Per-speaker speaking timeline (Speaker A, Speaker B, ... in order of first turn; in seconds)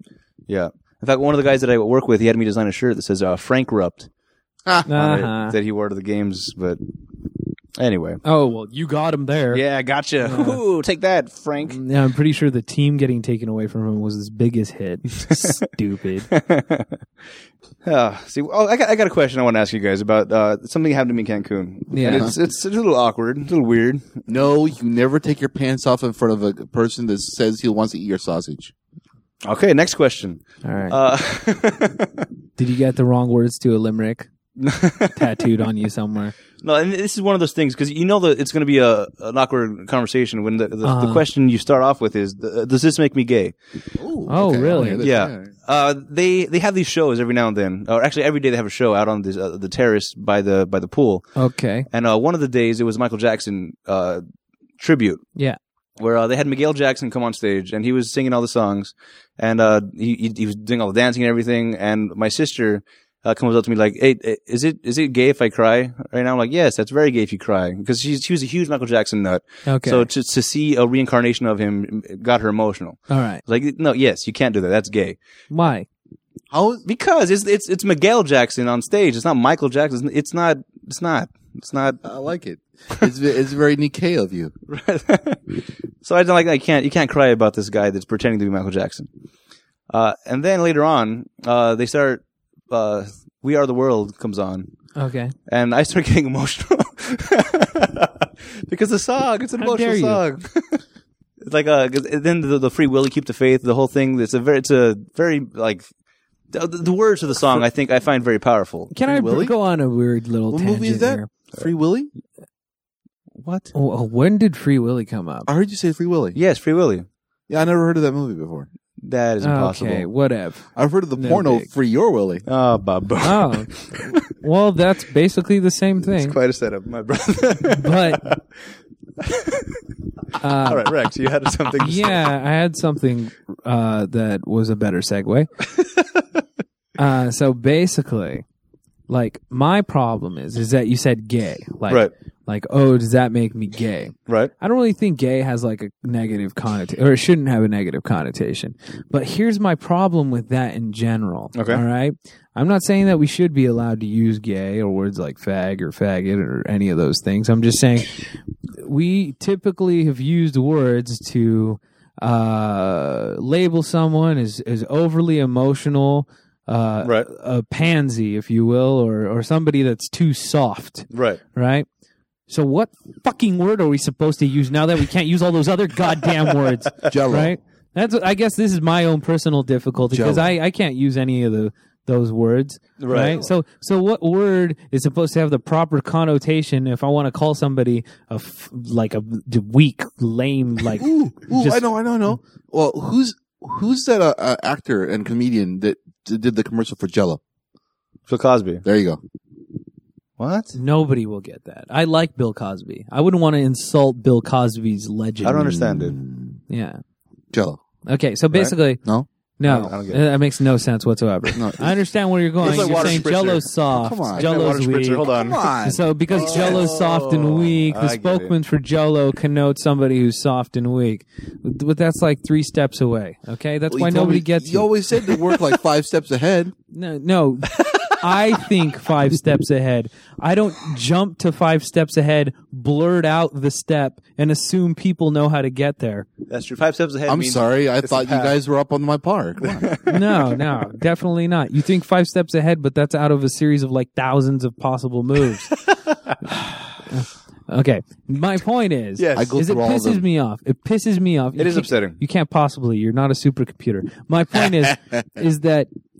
Speaker A: 0.5-4.1, 4.9-6.8, 7.8-8.2, 9.5-11.8, 15.2-15.5, 16.3-16.9, 17.8-24.2, 29.4-32.3, 34.6-35.3, 36.6-43.6, 44.7-51.4, 51.9-54.2, 54.8-55.3, 56.0-75.2, 76.8-82.0, 84.7-89.1, 89.9-94.7, 95.5-100.8, 101.4-105.9, 106.5-108.9, 113.4-113.7, 116.3-117.1, 119.0-120.1, 122.5-124.2, 126.2-128.4, 129.2-129.8, 130.6-132.2, 151.5-151.8, 167.0-167.3, 171.1-171.4, 183.0-183.4, 198.3-198.8, 200.4-200.7, 205.4-206.2, 209.6-210.2, 212.6-213.7, 214.3-215.6, 216.3-218.5, 227.7-228.1, 236.5-238.6, 239.6-240.6, 245.7-246.2, 249.2-249.5, 251.6-252.2
Speaker B: 4.9-5.5, 8.2-9.6, 10.2-10.6, 11.7-16.3, 21.9-22.3, 30.6-31.0, 32.6-34.3, 35.1-36.3, 40.8-41.2, 44.3-45.0, 51.4-51.9, 69.7-70.1, 73.1-73.4, 75.5-75.9, 95.0-95.3, 99.6-100.2, 108.9-111.3, 113.7-115.5, 119.4-121.7, 123.2-126.4, 127.8-128.3, 130.4-130.9, 131.7-135.5, 137.0-138.4, 139.1-158.2, 158.8-171.9, 172.5-192.3, 200.7-205.7, 206.7-207.0, 208.1-209.0, 209.6-215.3, 215.8-224.9, 226.9-236.3, 240.1-245.7, 247.0-255.9
Speaker C: 24.3-28.7, 44.0-45.5, 76.5-76.8, 82.0-84.5, 109.0-109.5, 110.5-112.1, 115.5-116.4, 117.5-118.7, 120.8-122.4, 177.1-177.6, 180.1-180.5, 191.0-197.4, 198.8-199.2, 205.6-206.6, 207.5-207.8, 211.5-212.0, 212.6-213.2, 213.9-214.5, 215.3-217.0, 223.9-226.7, 237.3-239.9, 249.3-250.2